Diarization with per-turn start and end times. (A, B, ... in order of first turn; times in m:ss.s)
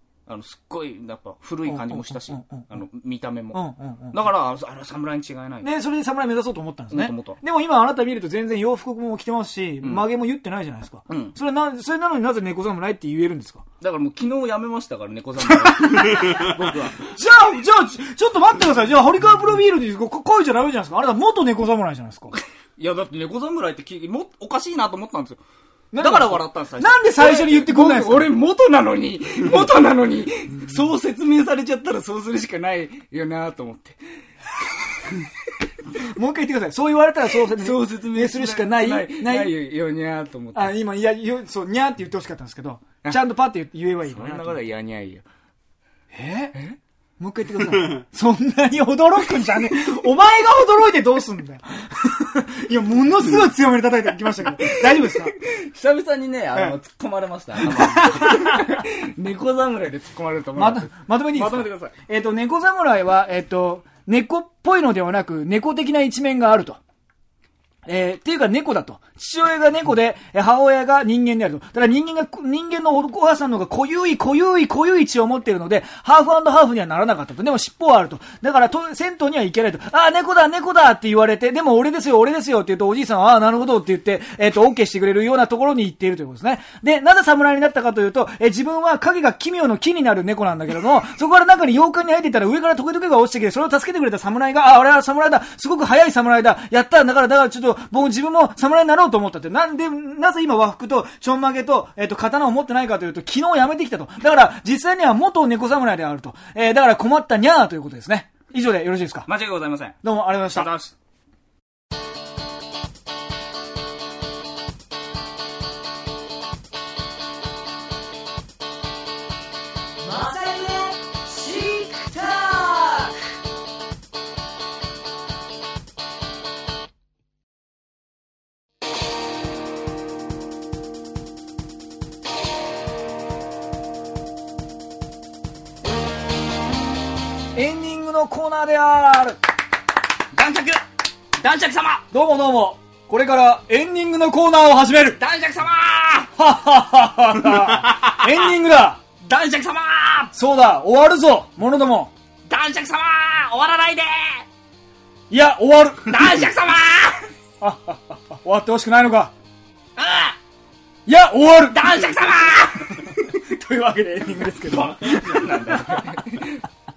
0:00.3-0:05.7 A
0:01.7-0:02.7 B
0:03.5-0:04.2 B
0:05.6-0:13.6 B
0:06.9-0:07.4 A
0:11.1-0:11.3 A
0:13.8-0:17.2 A
0:15.7-0:22.3 B
0:22.8-0:25.4 A
0:25.9-0:28.3 B
0:26.0-0:34.0 A
0:34.6-0:35.2 A
0:36.0-0:39.6 B
0:37.4-0:40.7 A
0:40.5-0:44.6 B
0:44.0-0:45.2 A
0:46.1-0:46.6 B
0:47.2-0:55.4 B
0:54.6-1:01.9 A
0:57.6-0:58.8 B
1:00.6-1:06.8 B
1:07.8-1:49.3 B
1:49.2-1:50.9 A
1:50.0-1:50.7 B
2:00.0-2:03.1 B
2:17.5-2:19.4 B
2:20.3-2:20.8 A
2:21.4-2:22.0 A
2:22.1-2:25.2 B
2:25.2-2:26.3 A
2:26.4-2:29.0 B
2:29.2-2:30.3 A
2:30.3-2:32.1 B
2:32.5-2:34.4 A
2:35.3-2:36.2 B
2:36.1-2:37.3 A
2:37.6-2:39.3 B
2:40.0-2:40.4 A
2:41.0-2:41.9 B
2:41.7-2:43.2 A
2:43.0-2:45.8 B
2:44.6-2:46.6 A